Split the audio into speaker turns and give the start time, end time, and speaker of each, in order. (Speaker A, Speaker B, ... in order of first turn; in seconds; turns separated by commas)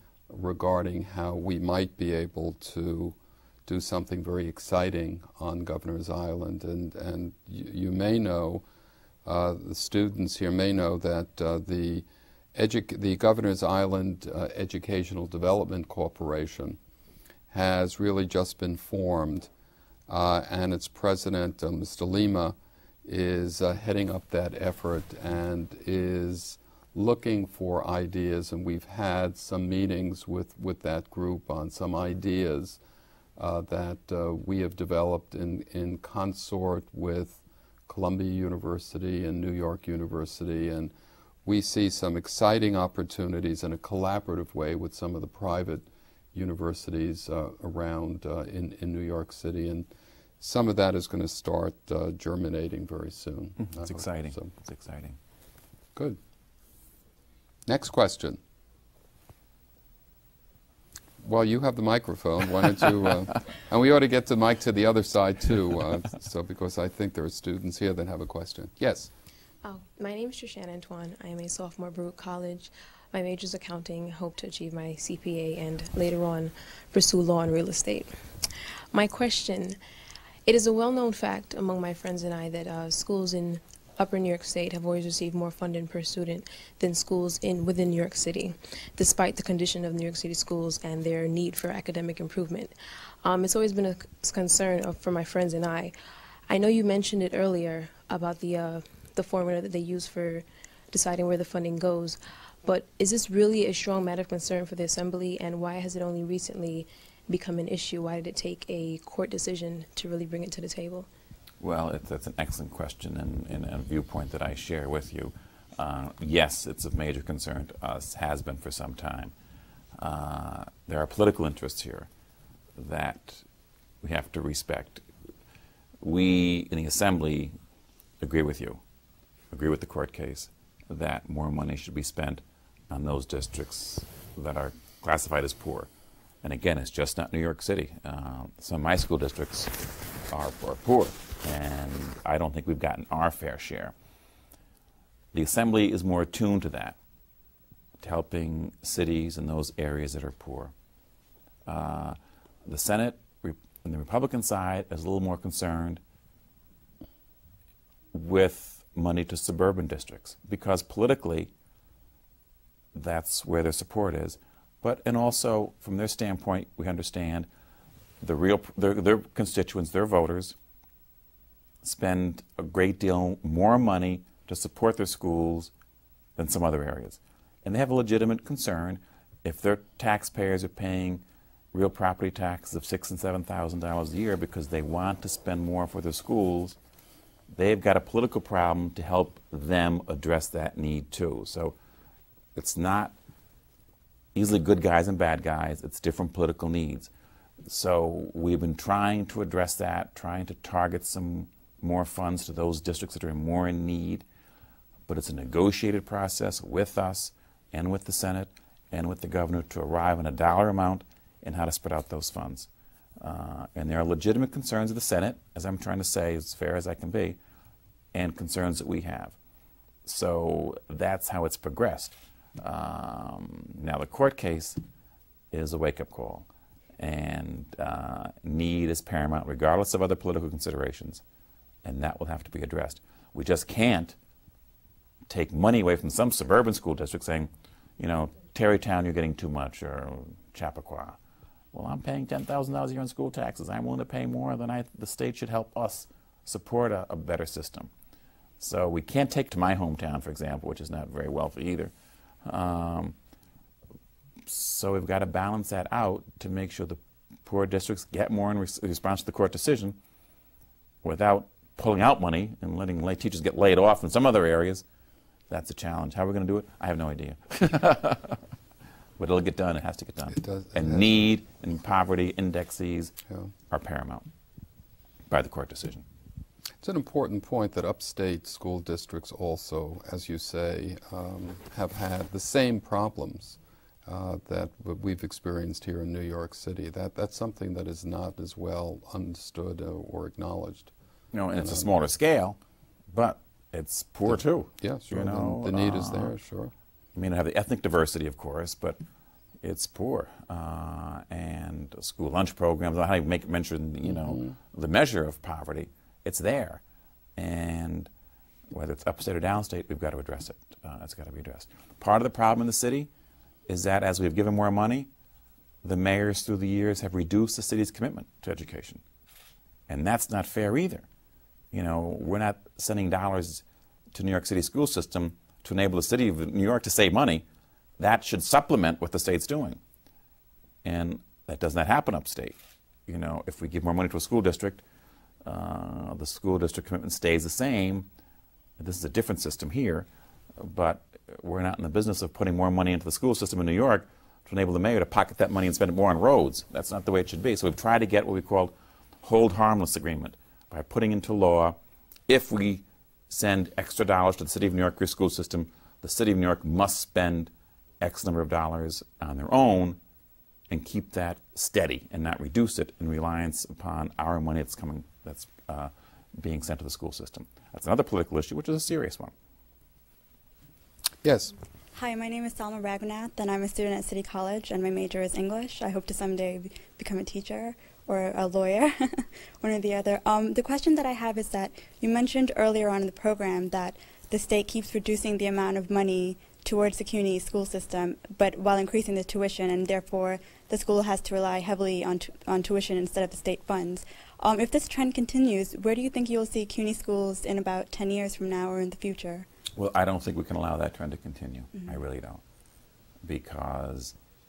Speaker A: 0.3-8.6, Speaker A: 9.2-16.8, Speaker A: 17.5-19.5, Speaker A: 20.1-32.8, Speaker A: 33.4-40.9, Speaker A: 41.4-49.9, Speaker A: 50.4-54.5, Speaker B: 53.6-55.2, Speaker A: 57.6-58.4, Speaker A: 61.2-69.1, Speaker C: 69.6-78.2, Speaker C: 78.9-79.8, Speaker C: 80.4-95.9, Speaker C: 96.5-111.1, Speaker B: 111.6-119.3, Speaker B: 120.0-122.1, Speaker B: 122.8-123.4, Speaker B: 124.0-125.0, Speaker B: 126.0-127.5, Speaker B: 128.2-128.8, Speaker B: 129.5-135.9, Speaker B: 136.4-143.9, Speaker B: 145.3-147.0, Speaker B: 148.0-150.7, Speaker B: 151.7-156.0, Speaker B: 158.1-161.5, Speaker B: 162.9-167.5, Speaker B: 168.2-170.5, Speaker B: 171.8-175.7, Speaker B: 176.4-186.8, Speaker B: 187.5-191.7, Speaker B: 192.5-193.1, Speaker B: 194.3-197.1, Speaker B: 197.7-204.2, Speaker B: 205.1-212.7, Speaker B: 213.2-217.4, Speaker B: 218.1-219.4, Speaker B: 220.0-224.8, Speaker B: 225.5-231.2, Speaker B: 231.8-234.2, Speaker B: 235.3-241.2, Speaker B: 241.7-247.9, Speaker B: 248.6-251.9, Speaker B: 252.4-253.1, Speaker B: 254.4-260.0, Speaker B: 261.0-264.8, Speaker B: 265.5-268.4, Speaker B: 269.2-273.1, Speaker A: 270.3-271.2, Speaker B: 273.7-274.3, Speaker B: 275.3-276.0, Speaker A: 276.8-290.9, Speaker B: 291.3-292.6, Speaker A: 291.5-291.9, Speaker B: 293.1-296.3, Speaker A: 294.3-296.7, Speaker B: 297.1-299.0, Speaker B: 299.6-306.8, Speaker A: 304.0-304.5, Speaker B: 307.4-308.1, Speaker B: 308.7-313.1, Speaker B: 313.7-315.1, Speaker B: 315.8-319.0, Speaker B: 319.9-321.1, Speaker B: 321.7-327.4, Speaker B: 328.0-329.8, Speaker B: 330.8-334.8, Speaker B: 335.4-338.1, Speaker B: 338.8-360.0, Speaker B: 360.7-369.3, Speaker A: 371.2-371.5, Speaker D: 371.9-399.5, Speaker B: 399.8-402.4, Speaker B: 403.2-404.1